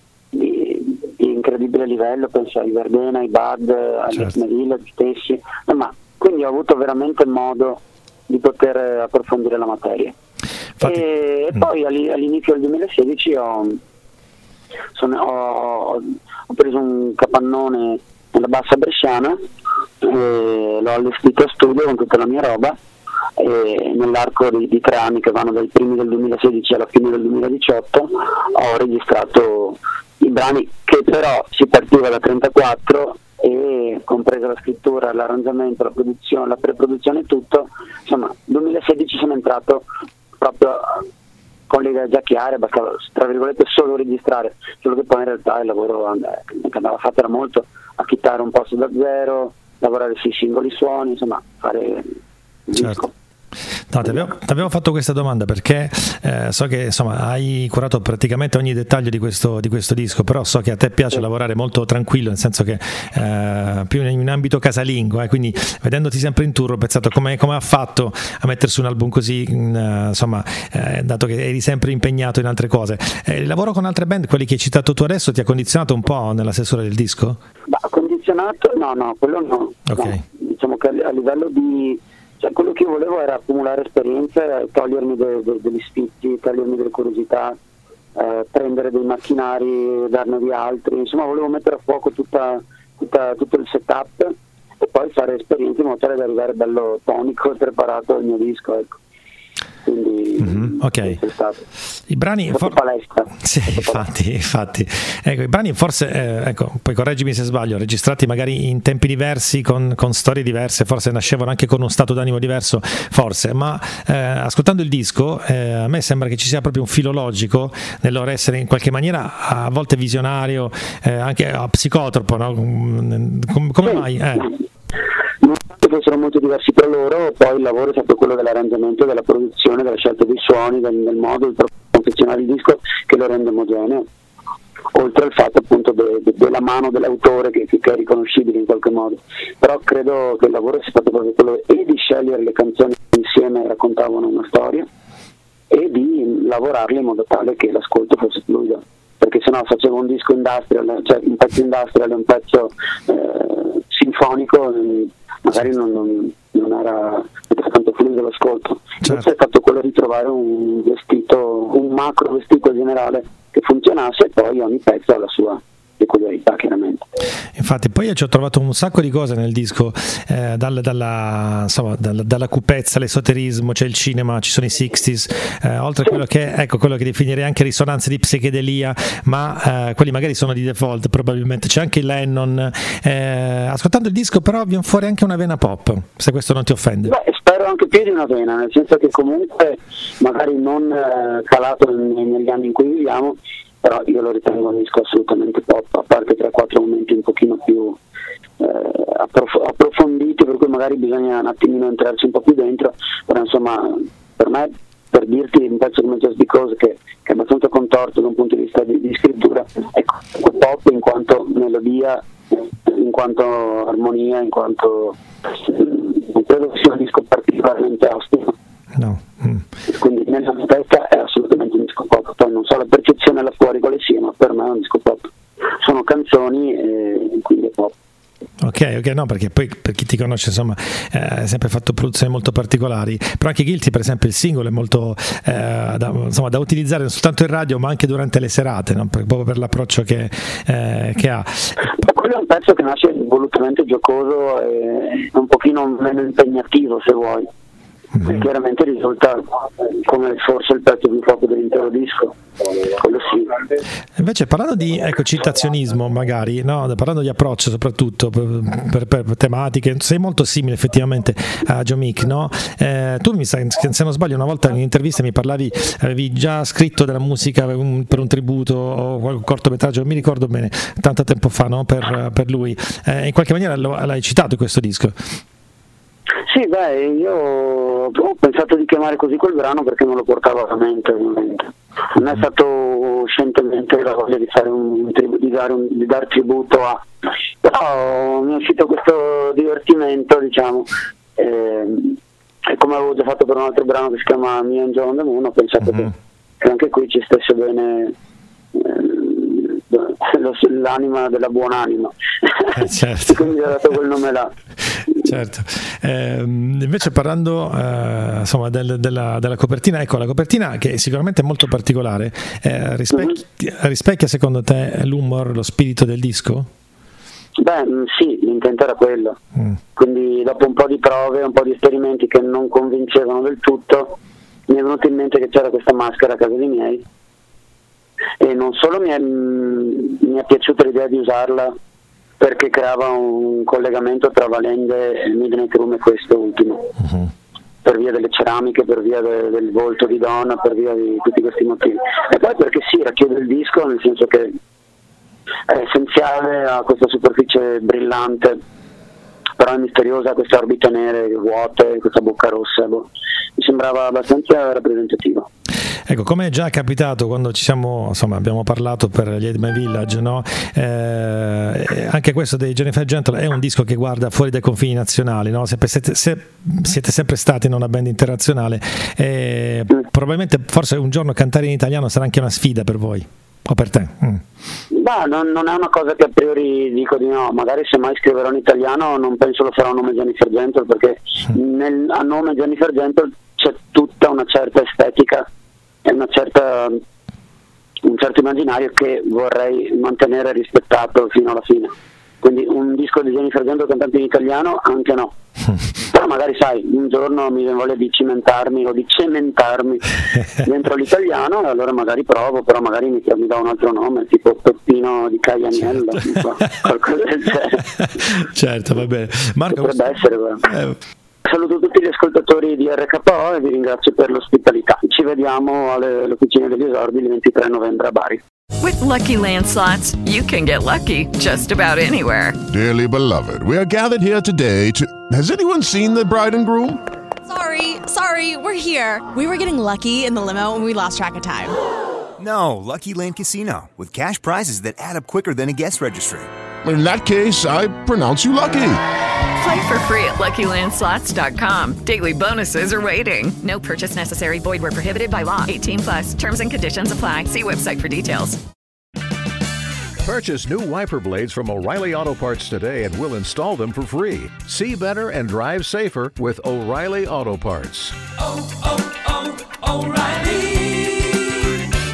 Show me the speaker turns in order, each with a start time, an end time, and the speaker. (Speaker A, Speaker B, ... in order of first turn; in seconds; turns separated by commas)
Speaker A: 0.3-10.2, Speaker A: 10.8-13.8, Speaker A: 14.9-19.4, Speaker A: 20.0-22.8, Speaker A: 23.4-39.9, Speaker A: 40.4-41.1, Speaker A: 41.7-52.1, Speaker A: 52.7-53.1, Speaker B: 53.9-77.4, Speaker A: 77.7-87.6, Speaker B: 79.9-80.2, Speaker A: 88.2-99.0, Speaker A: 99.8-101.6, Speaker B: 100.4-101.2, Speaker B: 102.1-102.8, Speaker A: 102.5-104.1, Speaker B: 103.3-124.5, Speaker A: 123.9-124.5, Speaker A: 125.4-134.1, Speaker A: 134.9-144.9, Speaker A: 145.7-167.1, Speaker B: 167.6-187.1, Speaker A: 187.1-198.0, Speaker A: 198.6-212.2, Speaker A: 212.8-218.6, Speaker B: 219.0-219.6, Speaker A: 219.9-227.9, Speaker B: 228.6-241.8, Speaker A: 241.9-247.5, Speaker B: 248.2-248.4, Speaker A: 248.2-253.6, Speaker B: 254.2-275.1, Speaker A: 276.5-287.0, Speaker A: 287.6-298.1, Speaker A: 298.7-304.5, Speaker B: 302.8-303.5, Speaker B: 305.1-316.7, Speaker A: 317.6-319.4, Speaker A: 319.9-324.2, Speaker A: 324.7-327.0, Speaker A: 328.4-331.7, Speaker A: 332.4-336.8, Speaker A: 337.8-344.5, Speaker A: 345.7-348.6, Speaker A: 349.6-355.5, Speaker B: 356.1-374.4, Speaker A: 374.9-385.4, Speaker A: 386.1-387.0, Speaker A: 388.0-395.3, Speaker A: 396.0-407.9, Speaker B: 408.0-410.1, Speaker A: 409.7-410.7, Speaker B: 410.7-410.9, Speaker A: 411.4-418.4, Speaker C: 418.8-422.6, Speaker D: 422.7-427.0, Speaker E: 427.5-431.8, Speaker F: 432.4-436.5, Speaker D: 436.8-439.0, Speaker C: 439.6-448.6, Speaker G: 450.2-458.2, Speaker G: 459.1-461.2